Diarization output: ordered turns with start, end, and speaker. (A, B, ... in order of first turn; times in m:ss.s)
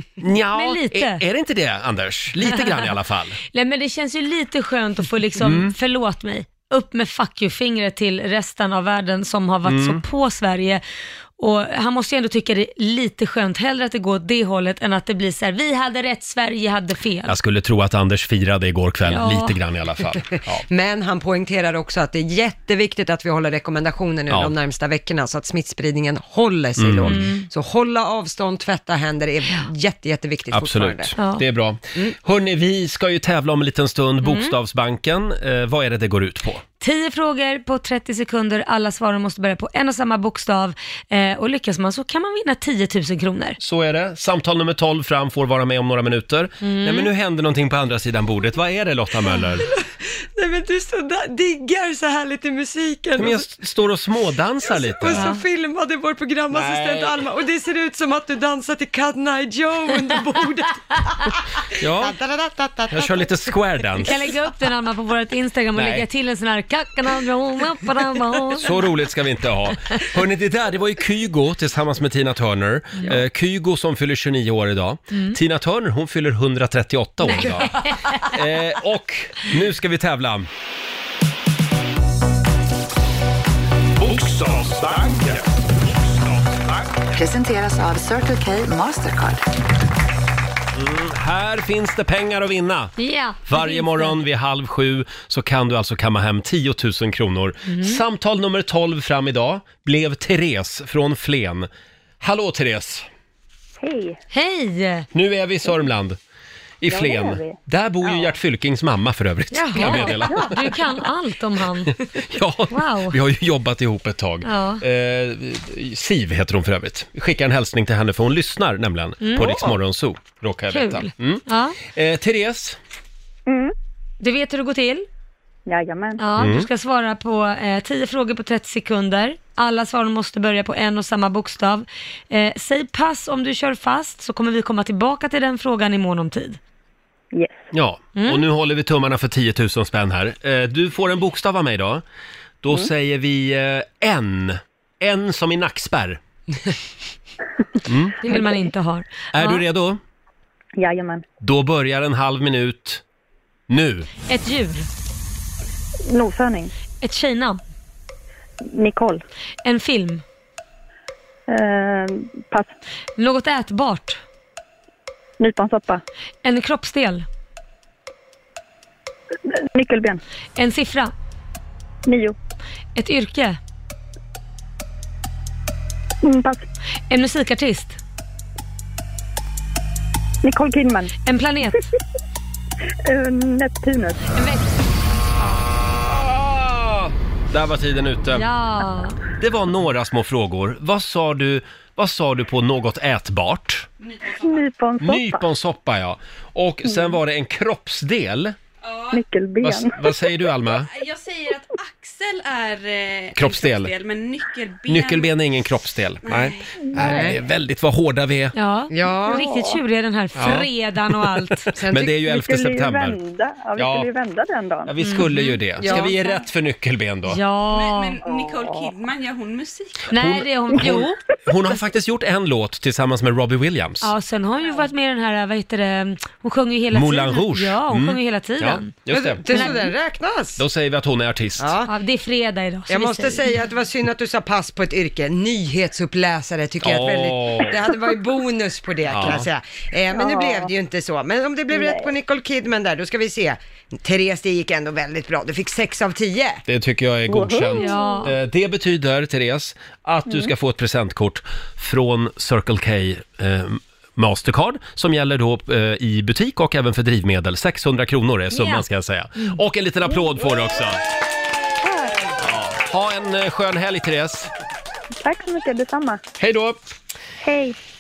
0:00.2-0:03.4 A
0:00.5-0:01.2 B
0:02.5-0:02.9 B
0:03.5-0:10.8 B
0:05.4-0:05.7 A
0:09.7-0:10.0 A
0:11.4-0:17.4 B
0:17.3-0:20.6 A
0:19.1-0:19.6 B
0:20.7-0:31.2 C
0:26.8-0:27.2 A
0:27.0-0:27.5 B
0:30.5-0:36.6 A
0:31.2-0:31.4 B
0:34.2-0:34.5 B
0:36.8-0:43.6 B
0:43.6-0:49.6 A
0:46.6-0:47.1 B
0:49.7-0:53.4 C
0:53.2-0:55.3 A
0:54.6-1:01.4 C
0:55.1-0:55.4 B
0:56.5-0:57.2 A
1:01.8-1:02.2 A
1:02.0-1:03.6 C
1:02.9-1:04.1 A
1:04.0-1:08.8 B
1:05.8-1:06.0 A
1:08.6-1:20.5 A
1:15.1-1:15.4 B
1:17.2-1:18.3 B
1:24.0-1:26.8 D
1:27.1-1:29.4 E
1:30.8-1:33.0 A
1:33.0-1:34.2 B
1:33.5-1:41.7 A
1:37.7-1:38.0 B
1:42.2-1:43.1 A
1:43.8-1:44.2 F
1:44.3-1:45.1 B
1:45.1-1:46.2 A
1:46.8-1:50.6 A
1:46.9-1:47.6 F
1:49.5-1:52.0 B
1:52.1-2:02.8 A
1:52.7-1:53.2 B
1:54.4-1:54.8 B
1:59.2-1:59.8 B
2:00.7-2:01.8 B
2:03.5-2:03.7 F
2:04.2-2:05.1 B
2:05.7-2:06.2 F
2:06.2-2:16.6 B
2:06.4-2:06.7 A
2:17.3-2:17.6 F
2:17.7-2:22.0 A
2:18.2-2:18.4 B
2:22.6-2:26.2 A
2:27.8-2:28.2 A
2:28.2-2:29.6 B
2:29.3-2:30.0 A
2:30.8-2:31.2 F
2:31.4-2:33.0 A
2:33.7-2:34.1 A
2:34.3-2:34.9 B
2:36.1-2:36.7 F
2:37.0-2:37.6 B
2:38.7-2:39.2 F
2:39.6-2:40.2 B
2:41.5-2:42.7 F
2:43.2-2:44.2 B
2:45.4-2:46.0 F
2:46.4-2:47.3 B
2:49.5-2:50.2 F
2:50.6-2:51.1 B
2:52.1-2:52.4 F
2:53.0-2:53.6 B
2:56.2-2:56.7 F
2:57.1-2:58.0 B
3:00.4-3:01.1 F
3:01.3-3:01.9 B
3:03.0-3:04.3 F
3:04.3-3:04.9 B
3:06.0-3:08.5 A
3:08.4-3:09.2 B
3:09.4-3:13.9 A
3:14.0-3:14.6 G
3:14.4-3:15.4 F
3:15.0-3:18.6 A
3:18.8-3:19.2 G
3:19.1-3:20.0 F
3:19.6-3:20.9 A
3:20.7-3:25.3 G
3:23.3-3:24.0 A
3:24.9-3:28.6 A
3:26.2-3:26.7 G
3:27.0-3:27.4 C
3:28.6-3:31.7 B
3:28.9-3:29.4 C
3:29.3-3:29.8 F
3:30.4-3:30.7 A
3:31.8-3:32.2 C
3:31.9-3:33.2 A
3:32.2-3:34.9 F
3:33.8-3:34.1 A
3:34.9-3:37.4 A
3:35.0-3:36.0 B
3:35.8-3:36.1 C
3:37.3-3:38.2 B
3:37.7-3:40.1 G
3:38.2-3:38.9 F
3:40.1-3:41.2 B
3:40.1-3:44.1 A
3:44.0-3:49.9 B
3:46.9-3:49.6 A
3:49.1-3:50.6 C
3:50.6-3:51.7 A
3:51.6-3:51.9 C
3:51.9-3:53.5 B
3:52.9-4:06.6 C
3:56.8-3:57.8 A
3:59.1-3:59.5 A
4:00.1-4:00.7 F
4:01.7-4:02.1 F
4:06.7-4:21.0 A
4:07.3-4:08.3 F
4:07.8-4:08.3 B
4:18.5-4:18.8 B
4:21.8-4:22.3 F
4:22.4-4:24.5 A
4:25.2-4:26.2 F
4:26.4-4:26.8 A
4:27.4-4:27.8 F